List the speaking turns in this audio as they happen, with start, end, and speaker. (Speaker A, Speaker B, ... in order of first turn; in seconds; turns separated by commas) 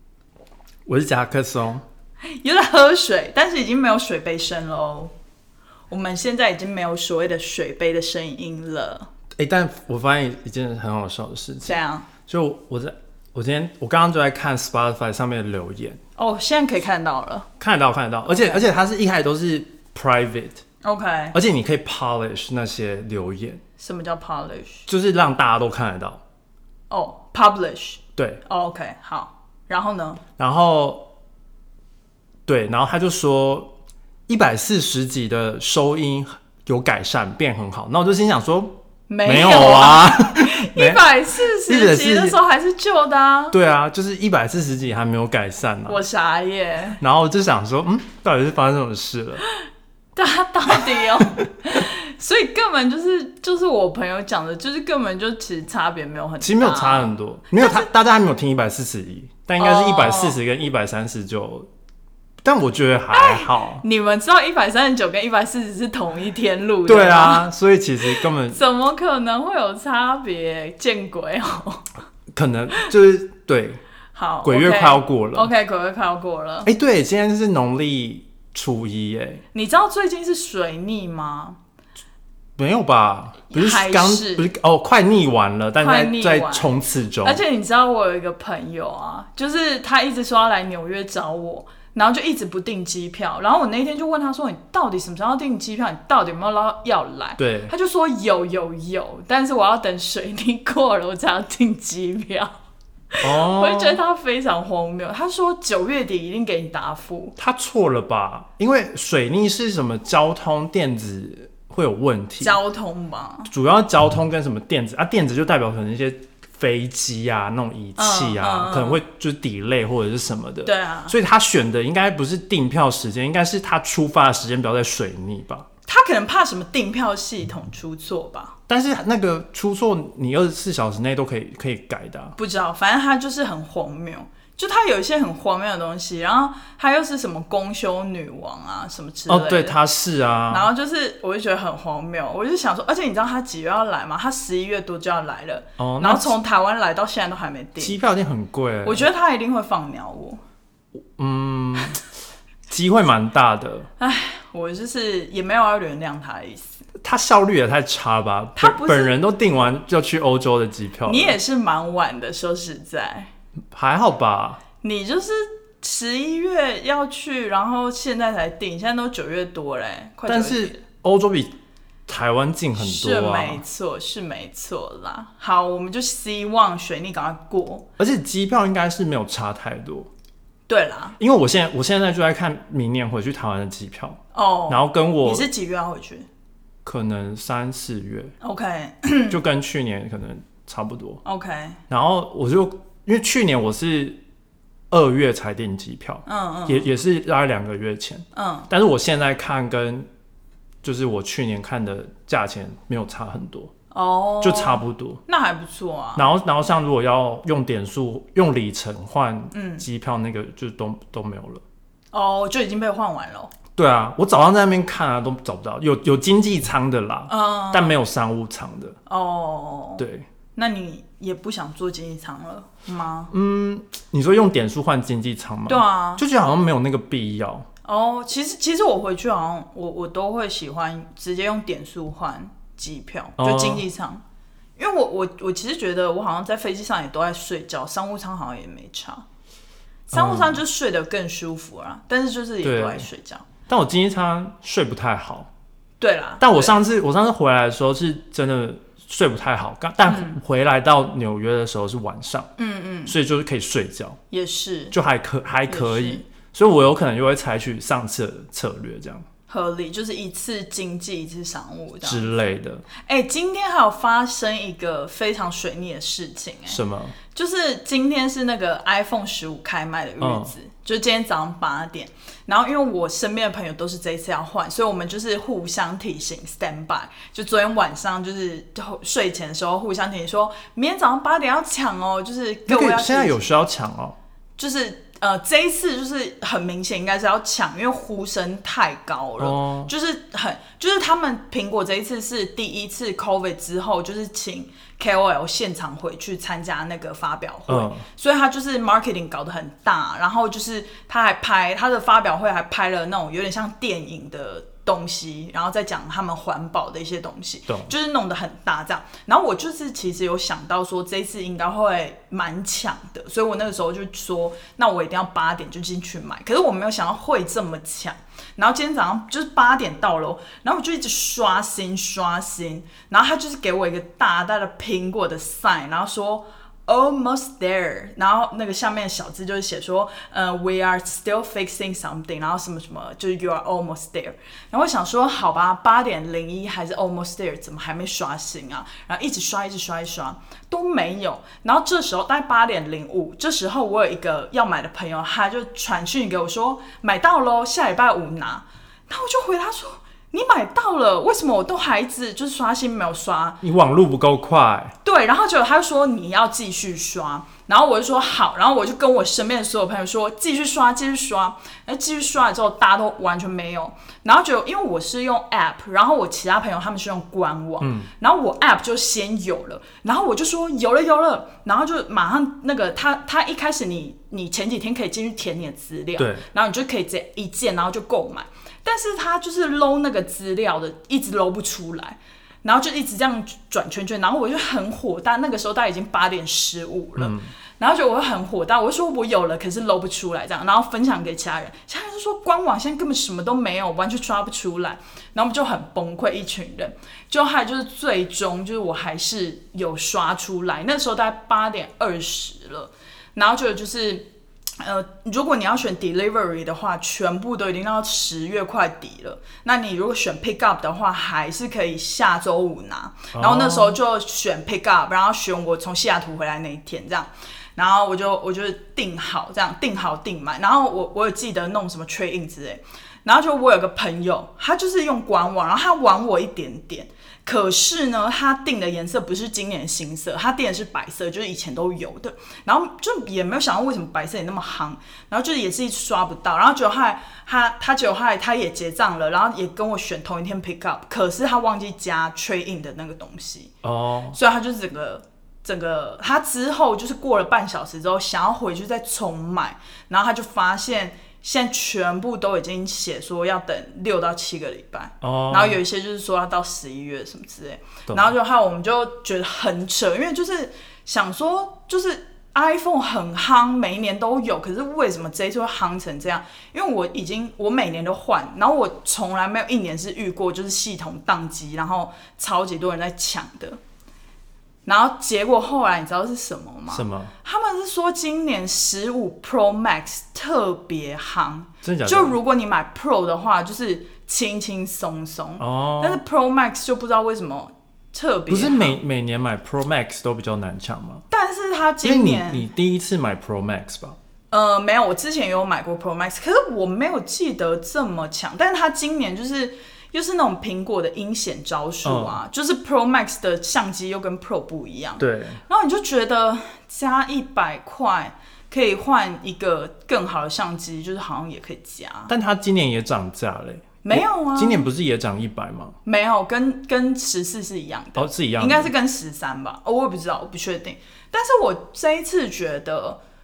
Speaker A: 0.8-1.8, Speaker B: 2.2-5.1, Speaker B: 5.9-9.1, Speaker A: 9.4-16.0, Speaker B: 11.6-12.1, Speaker B: 16.2-17.5, Speaker A: 17.6-20.6, Speaker B: 18.2-18.6, Speaker B: 20.8-21.4, Speaker A: 21.3-23.6, Speaker B: 23.8-24.9, Speaker A: 24.9-26.2, Speaker B: 26.9-30.2, Speaker A: 28.1-28.4, Speaker A: 30.4-31.1, Speaker A: 32.5-33.7, Speaker A: 34.3-41.0, Speaker B: 39.1-43.6, Speaker A: 41.5-42.4, Speaker A: 43.5-46.0, Speaker B: 45.9-47.0, Speaker A: 47.0-49.4, Speaker B: 50.1-57.9, Speaker A: 56.4-61.7, Speaker B: 59.6-60.4, Speaker A: 62.4-63.8, Speaker B: 63.1-67.5, Speaker A: 66.8-68.6, Speaker B: 68.0-71.9, Speaker A: 72.3-73.8, Speaker B: 74.1-76.7, Speaker A: 74.4-75.5, Speaker A: 76.7-79.4, Speaker B: 79.5-81.6, Speaker A: 82.6-87.4, Speaker B: 83.5-84.5, Speaker B: 85.8-102.5, Speaker A: 97.4-97.7, Speaker B: 103.1-107.3, Speaker A: 103.2-104.0, Speaker A: 107.4-112.6, Speaker B: 112.4-113.5, Speaker A: 113.5-125.7, Speaker B: 118.0-119.0, Speaker B: 120.6-121.1, Speaker B: 125.9-128.6, Speaker A: 128.7-132.3, Speaker B: 132.4-139.8, Speaker A: 139.3-140.7, Speaker B: 140.5-148.0, Speaker A: 145.8-146.3, Speaker A: 147.8-149.1, Speaker B: 148.8-150.4, Speaker A: 151.2-152.0, Speaker A: 152.7-153.9, Speaker B: 154.0-156.8, Speaker A: 157.0-161.4, Speaker B: 158.6-159.1, Speaker B: 161.0-163.3, Speaker A: 163.7-164.6, Speaker B: 164.8-170.8, Speaker A: 170.3-171.5, Speaker A: 172.1-173.6, Speaker B: 172.8-177.8, Speaker A: 178.0-180.1, Speaker B: 180.7-181.2, Speaker A: 181.2-185.5, Speaker B: 184.3-186.3, Speaker A: 186.8-188.3, Speaker B: 188.4-189.4, Speaker A: 189.3-191.2, Speaker B: 191.2-191.8, Speaker A: 191.9-194.2, Speaker A: 194.9-200.1, Speaker B: 196.2-196.9, Speaker B: 198.3-198.7, Speaker A: 200.8-203.7, Speaker B: 203.9-206.3, Speaker A: 204.4-205.2, Speaker A: 206.2-211.6, Speaker B: 209.5-209.8, Speaker B: 212.1-213.5, Speaker A: 213.8-219.0, Speaker B: 217.3-217.9, Speaker B: 219.1-220.0, Speaker A: 220.0-220.2, Speaker B: 220.6-223.3, Speaker A: 223.3-227.7, Speaker B: 225.7-226.2, Speaker B: 227.8-234.2, Speaker A: 233.4-233.8, Speaker B: 234.8-239.2, Speaker B: 240.1-243.4, Speaker A: 240.1-240.6, Speaker A: 242.6-243.0, Speaker A: 243.7-245.5, Speaker B: 246.0-246.7, Speaker A: 246.4-252.5, Speaker B: 250.1-250.4, Speaker B: 252.6-253.1, Speaker A: 253.1-254.2, Speaker B: 254.3-254.9, Speaker A: 254.9-259.2, Speaker B: 255.7-256.2, Speaker B: 259.5-262.3, Speaker A: 262.0-262.8, Speaker B: 262.9-266.8, Speaker A: 266.7-267.1, Speaker B: 267.3-283.4, Speaker A: 270.2-270.5, Speaker A: 282.7-284.1, Speaker B: 284.6-353.6, Speaker A: 289.4-289.9, Speaker A: 297.7-298.0, Speaker A: 307.7-307.9, Speaker A: 353.6-354.9, Speaker B: 355.0-404.2, Speaker A: 367.8-368.1, Speaker A: 376.2-376.4, Speaker A: 387.2-387.5, Speaker B: 404.8-443.7, Speaker A: 413.3-414.0, Speaker A: 443.8-444.4, Speaker B: 444.3-473.8, Speaker A: 455.2-455.8, Speaker B: 474.9-489.0, Speaker A: 476.9-477.3, Speaker A: 481.8-482.4, Speaker A: 485.6-486.2, Speaker A: 488.5-491.2, Speaker B: 491.3-492.7, Speaker A: 492.0-494.2, Speaker B: 494.5-512.3, Speaker A: 502.0-502.4, Speaker A: 505.2-505.6, Speaker A: 512.3-516.0, Speaker B: 514.0-514.8, Speaker B: 516.0-523.2, Speaker A: 518.1-518.9